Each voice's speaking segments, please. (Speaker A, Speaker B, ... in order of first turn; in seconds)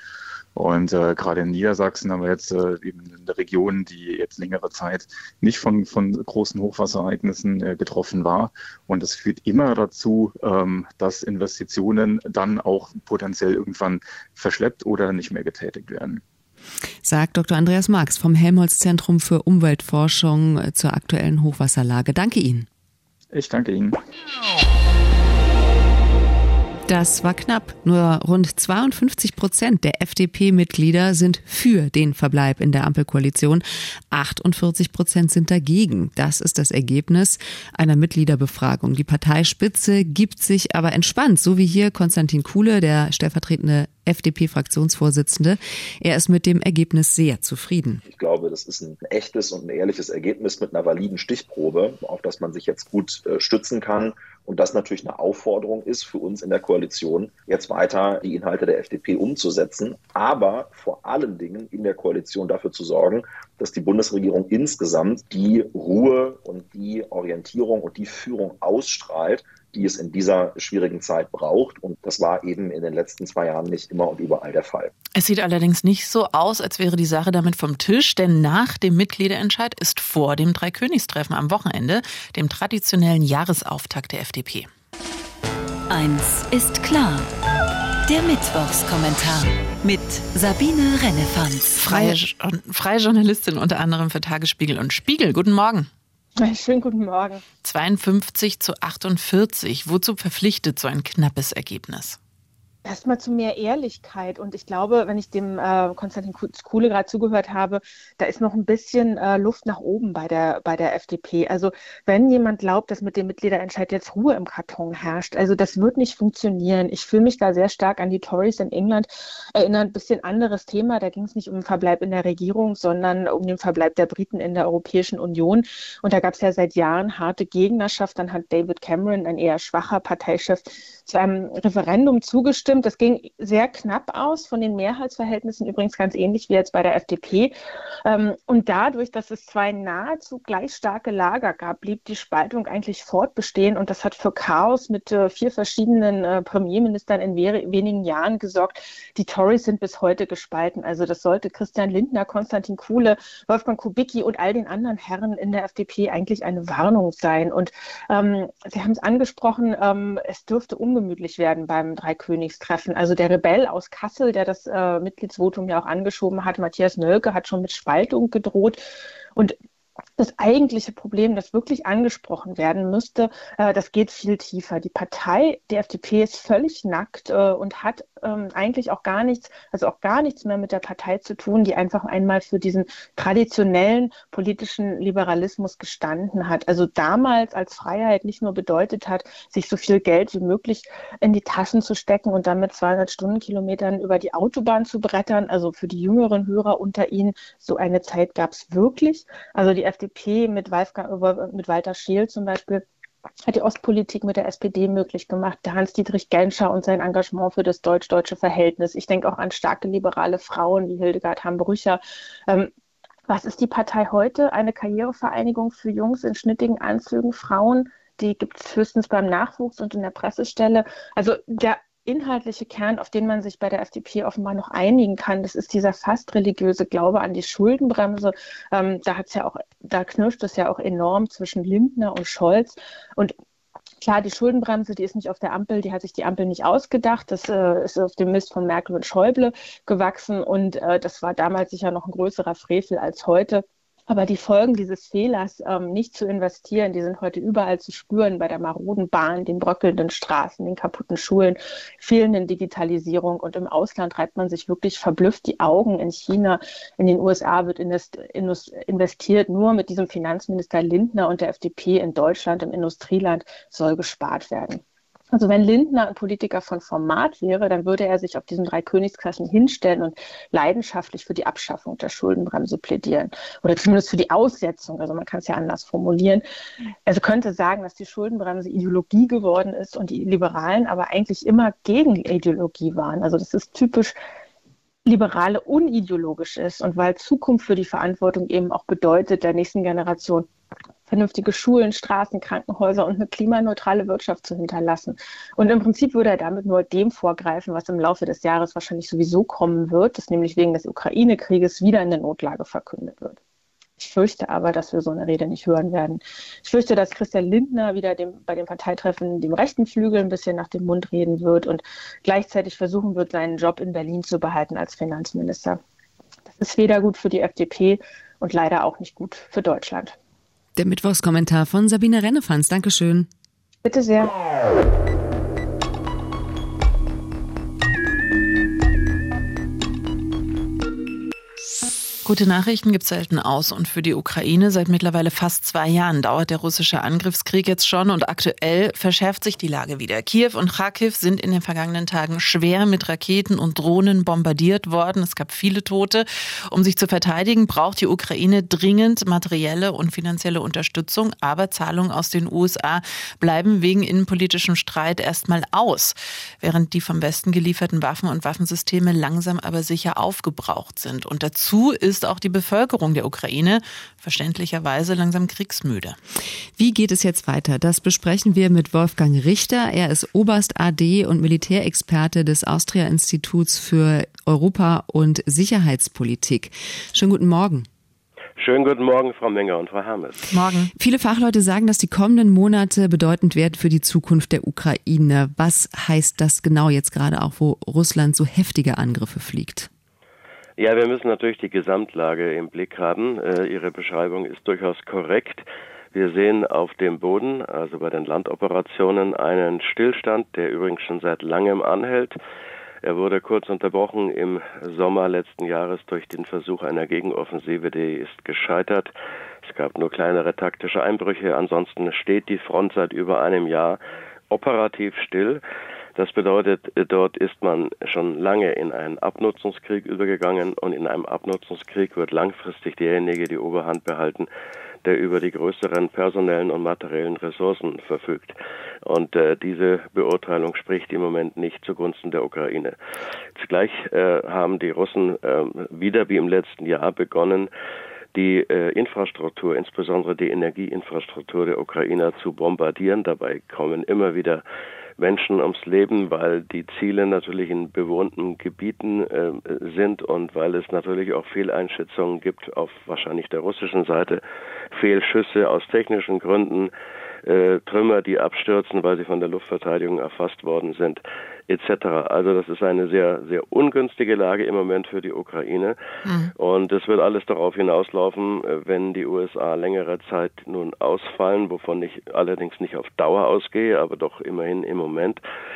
Speaker A: 0.5-16.2, 23.3-24.0
Speaker B: 17.0-22.7, 26.9-48.0, 320.8-323.3, 366.8-377.9, 380.9-389.9
Speaker C: 48.0-74.9
Speaker D: 75.1-84.7, 91.8-95.9, 97.6-102.2, 332.2-366.2, 380.5-380.9, 466.2-466.5
Speaker E: 85.9-87.3, 88.0-91.9
Speaker F: 96.4-97.4, 102.8-137.5, 138.0-168.8, 170.2-202.8, 203.4-212.7, 213.3-233.3, 234.0-276.4, 277.1-284.1, 285.0-290.5, 291.1-303.4, 304.0-315.8, 316.5-320.1, 323.8-324.3
Speaker G: 378.6-380.5, 390.8-402.3, 403.0-409.1, 409.6-414.0, 414.5-415.6, 416.1-424.5, 425.0-428.5, 429.1-432.9, 433.6-437.7, 438.3-444.6, 445.2-454.4, 454.9-456.9, 457.4-465.9, 466.6-475.4